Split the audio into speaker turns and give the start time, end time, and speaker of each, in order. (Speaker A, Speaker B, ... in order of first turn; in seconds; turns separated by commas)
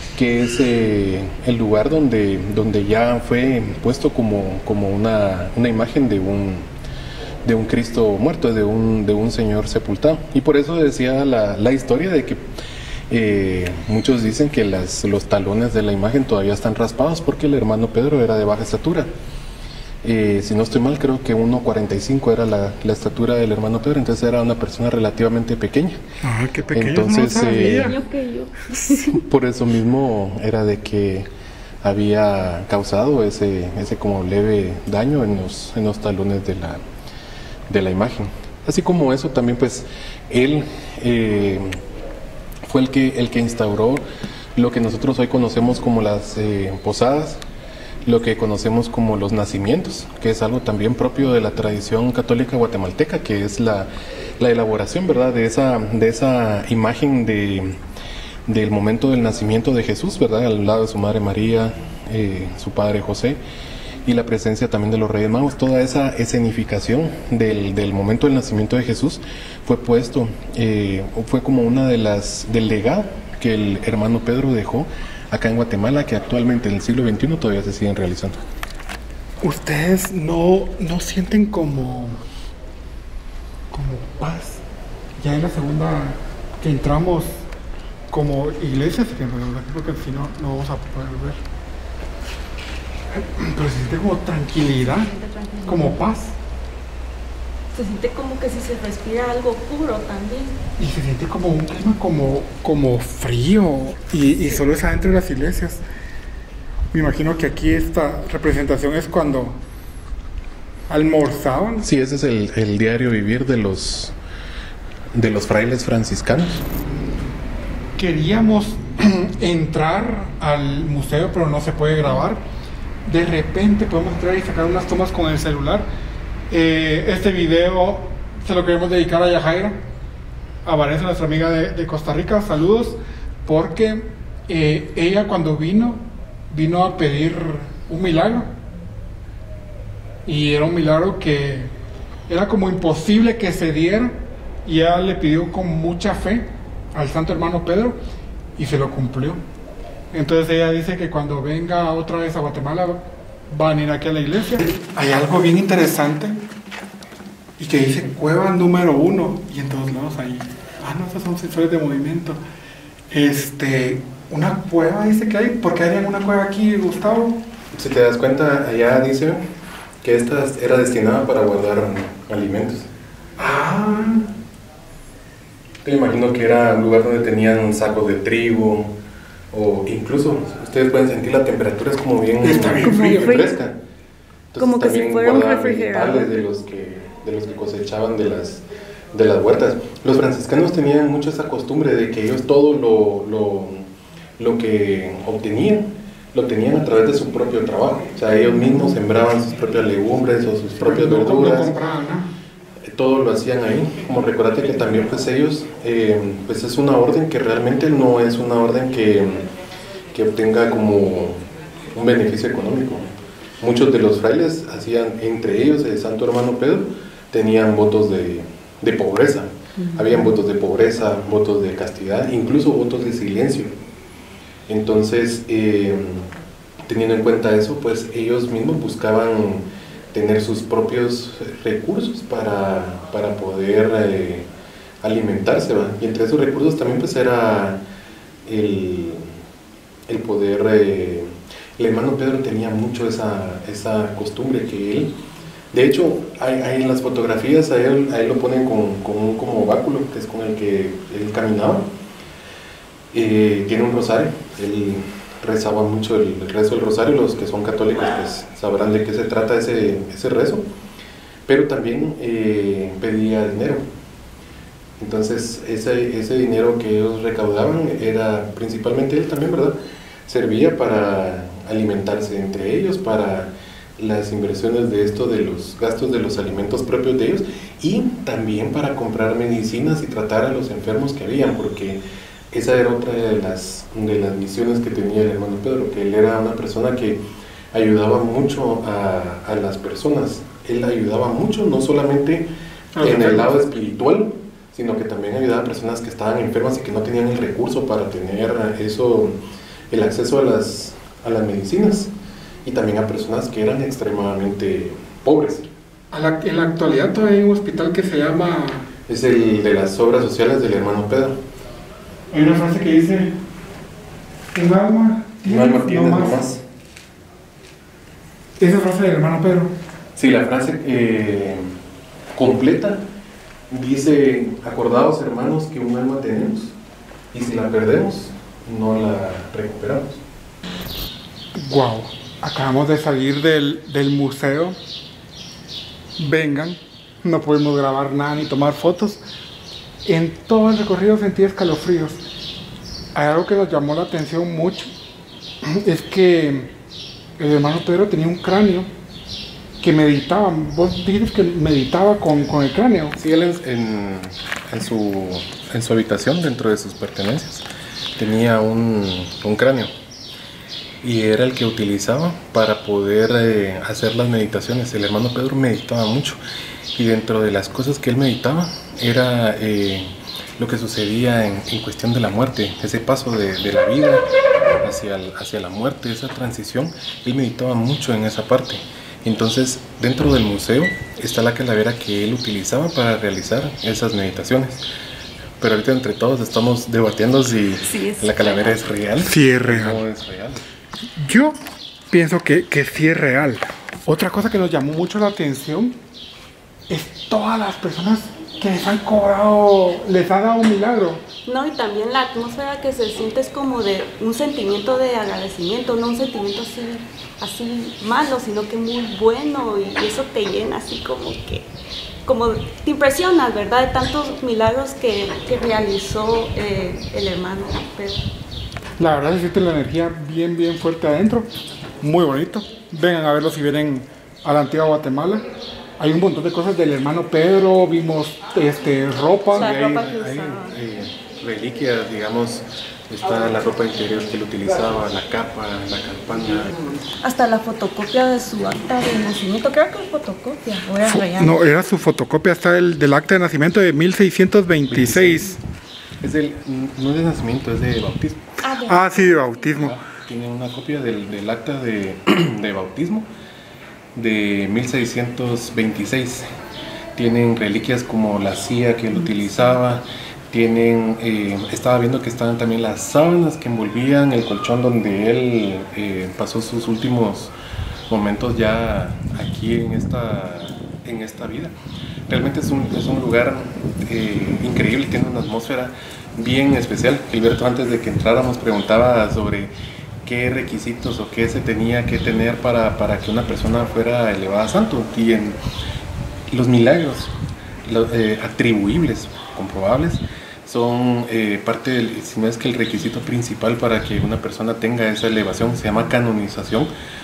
Speaker A: 0.1-6.7, Speaker A: 7.4-12.5, Speaker A: 13.1-19.1, Speaker A: 20.0-26.0, Speaker B: 26.2-28.0, Speaker A: 26.7-28.0, Speaker C: 27.4-29.2, Speaker A: 29.0-31.3, Speaker A: 31.8-36.8, Speaker A: 37.7-41.8, Speaker A: 42.6-47.4, Speaker A: 48.0-57.8, Speaker A: 58.5-63.4, Speaker A: 64.0-78.4, Speaker B: 79.4-82.2, Speaker B: 83.7-84.6, Speaker B: 85.2-87.4, Speaker B: 88.1-91.4, Speaker B: 93.1-95.1, Speaker C: 95.0-96.0, Speaker B: 95.6-96.3, Speaker C: 97.7-100.6, Speaker B: 100.8-105.8, Speaker B: 106.9-109.6, Speaker B: 110.9-111.9, Speaker A: 111.8-114.2, Speaker A: 115.1-116.6, Speaker B: 118.0-122.4, Speaker B: 123.0-125.9, Speaker B: 126.5-129.8, Speaker B: 130.6-138.5, Speaker B: 140.2-141.7, Speaker B: 142.3-148.0, Speaker B: 148.6-149.4, Speaker B: 150.1-156.4, Speaker B: 157.6-162.4, Speaker B: 163.1-167.4, Speaker A: 167.7-169.4, Speaker A: 170.0-172.9, Speaker B: 173.4-174.3, Speaker A: 175.8-178.9, Speaker A: 179.5-183.8, Speaker B: 182.4-183.3, Speaker C: 182.7-183.6, Speaker A: 184.5-201.7, Speaker C: 184.6-186.3, Speaker B: 200.8-202.3, Speaker A: 202.9-209.5, Speaker A: 210.1-223.7, Speaker A: 224.7-226.3, Speaker A: 226.8-234.5, Speaker A: 235.0-237.8, Speaker A: 238.4-239.3, Speaker A: 240.1-245.1, Speaker A: 245.7-251.9, Speaker A: 253.1-260.6, Speaker A: 261.4-263.8, Speaker A: 265.0-269.8, Speaker A: 270.3-282.0, Speaker A: 282.5-287.2, Speaker A: 287.7-299.4, Speaker B: 292.9-293.6, Speaker A: 299.9-302.1, Speaker A: 302.6-305.7, Speaker B: 306.1-308.9, Speaker A: 309.1-311.4, Speaker B: 312.3-313.4, Speaker B: 314.5-316.4, Speaker A: 315.4-316.6, Speaker B: 318.6-319.7, Speaker A: 320.1-321.7, Speaker A: 322.3-323.0, Speaker A: 323.7-326.8, Speaker A: 327.3-330.2, Speaker B: 331.5-334.8, Speaker B: 336.2-339.2, Speaker B: 340.0-342.2, Speaker B: 343.1-344.9, Speaker B: 345.6-346.7, Speaker B: 347.4-348.9, Speaker B: 349.8-353.2, Speaker A: 353.1-357.6, Speaker A: 358.1-359.9, Speaker A: 361.0-366.4, Speaker A: 366.9-374.2, Speaker A: 374.8-384.8, Speaker A: 385.6-390.6, Speaker C: 387.9-388.8, Speaker B: 389.2-390.0, Speaker B: 391.2-391.6, Speaker B: 392.1-396.0, Speaker B: 396.9-401.2, Speaker C: 401.4-411.7, Speaker C: 412.2-418.3, Speaker B: 419.0-421.5, Speaker B: 422.0-425.4, Speaker B: 426.0-429.7, Speaker C: 429.5-430.7, Speaker A: 429.5-436.7, Speaker C: 437.2-441.6, Speaker B: 441.0-445.6, Speaker A: 444.9-445.6, Speaker A: 446.2-448.5, Speaker C: 448.6-449.9, Speaker B: 448.8-450.0, Speaker A: 449.8-453.3, Speaker A: 454.1-456.4, Speaker A: 457.1-467.5, Speaker A: 468.1-471.7, Speaker A: 472.3-479.7, Speaker A: 480.2-485.6, Speaker A: 486.5-487.3, Speaker A: 487.8-496.9